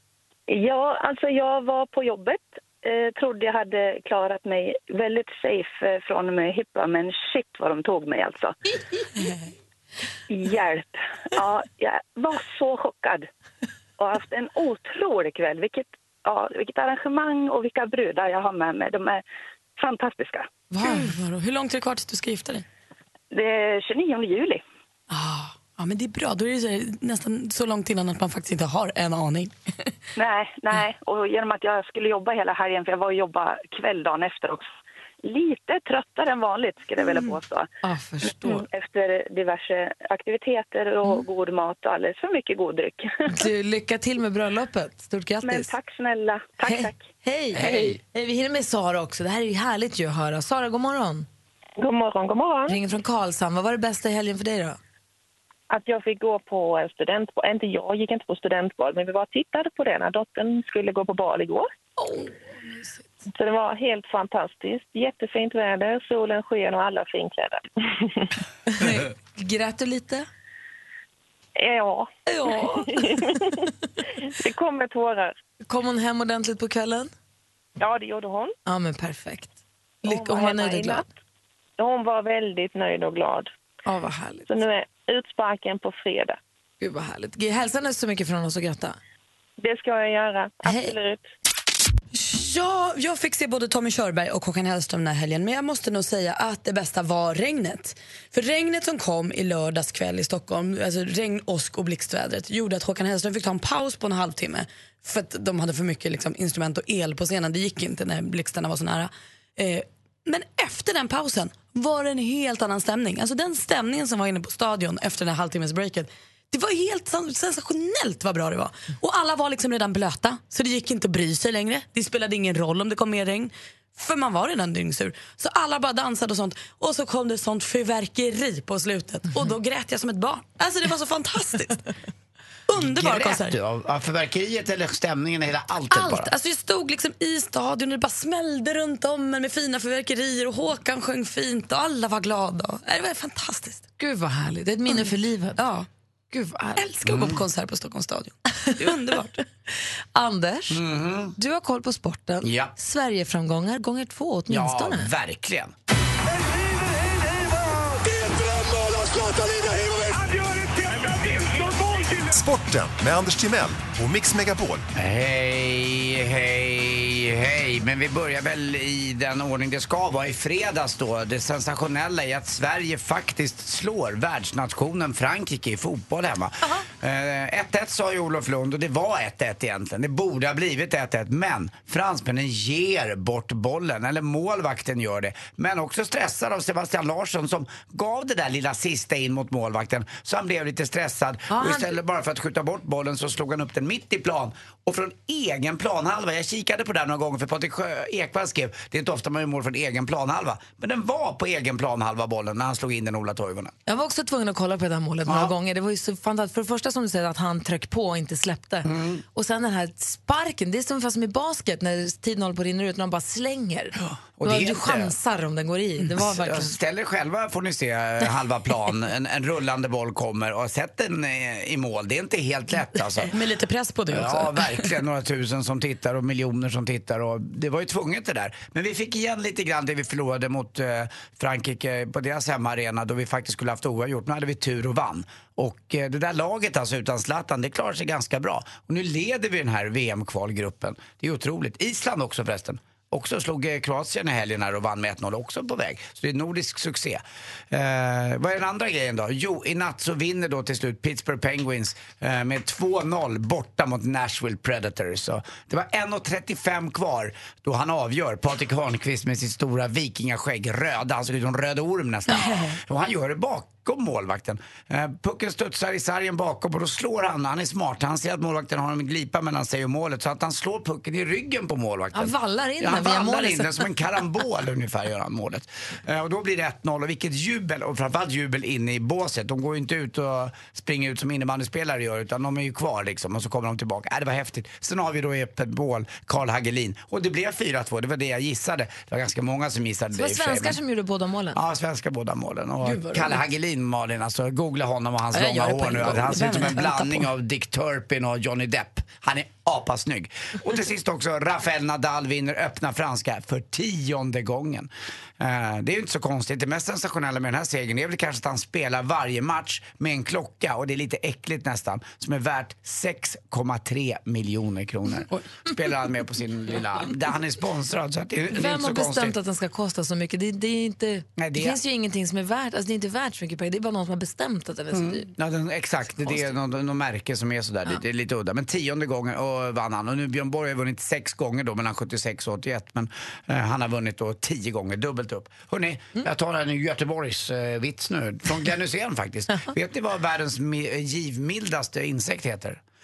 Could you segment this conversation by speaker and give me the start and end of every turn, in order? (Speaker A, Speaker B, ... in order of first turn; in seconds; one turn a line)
Speaker A: 0.5-8.6
Speaker A: 10.3-13.3
Speaker A: 14.0-19.2
Speaker A: 19.8-20.5
Speaker B: 20.7-21.2
Speaker C: 20.8-22.6
Speaker A: 23.3-24.6
Speaker C: 25.1-29.9
Speaker A: 30.2-34.7
Speaker A: 35.2-37.7
Speaker B: 37.8-38.7
Speaker A: 38.5-43.5
Speaker B: 43.3-45.7
Speaker A: 45.4-47.0
Speaker B: 46.6-51.3
Speaker D: 47.5-48.0
Speaker E: 51.8-52.8
Speaker B: 52.7-54.8
Speaker E: 55.7-61.7
Speaker B: 62.0-63.2
Speaker E: 63.3-68.2
Speaker B: 68.7-70.3
Speaker E: 71.6-73.7
Speaker B: 72.3-73.5
Speaker E: 74.3-75.3
Speaker B: 75.7-77.1
Speaker E: 77.8-78.5
Speaker B: 78.7-81.1
Speaker E: 80.0-81.1
Speaker E: 81.8-83.5
Speaker B: 83.9-84.5
Speaker E: 84.5-86.4
Speaker B: 86.8-89.0
Speaker E: 89.6-91.2
Speaker B: 90.6-91.0
Speaker C: 92.1-131.8
Speaker C: 132.7-133.6
Speaker D: 132.8-136.3
Speaker C: 135.9-143.9
Speaker B: 144.0-145.6
Speaker C: 145.6-145.9
Speaker B: 146.3-146.8
Speaker C: 146.8-149.4
Speaker D: 147.1-147.4
Speaker B: 150.1-150.8
Speaker D: 150.7-151.4
Speaker B: 151.4-155.1
Speaker D: 152.4-152.7
Speaker D: 154.5-155.7
Speaker F: 158.7-160.1
Speaker F: 162.1-164.9
Speaker D: 164.9-203.7
Speaker B: 191.5-191.9
Speaker B: 203.9-216.8
Speaker D: 205.3-205.5
Speaker D: 208.8-209.2
Speaker D: 214.0-215.2
Speaker D: 216.1-223.3
Speaker C: 223.3-224.8
Speaker D: 224.1-290.8
Speaker B: 272.1-273.9
Speaker B: 290.1-291.6
Speaker D: 291.5-319.4
Speaker C: 292.8-293.4
Speaker C: 295.3-297.3
Speaker B: 318.5-325.3
Speaker D: 321.4-321.8
Speaker D: 324.9-342.8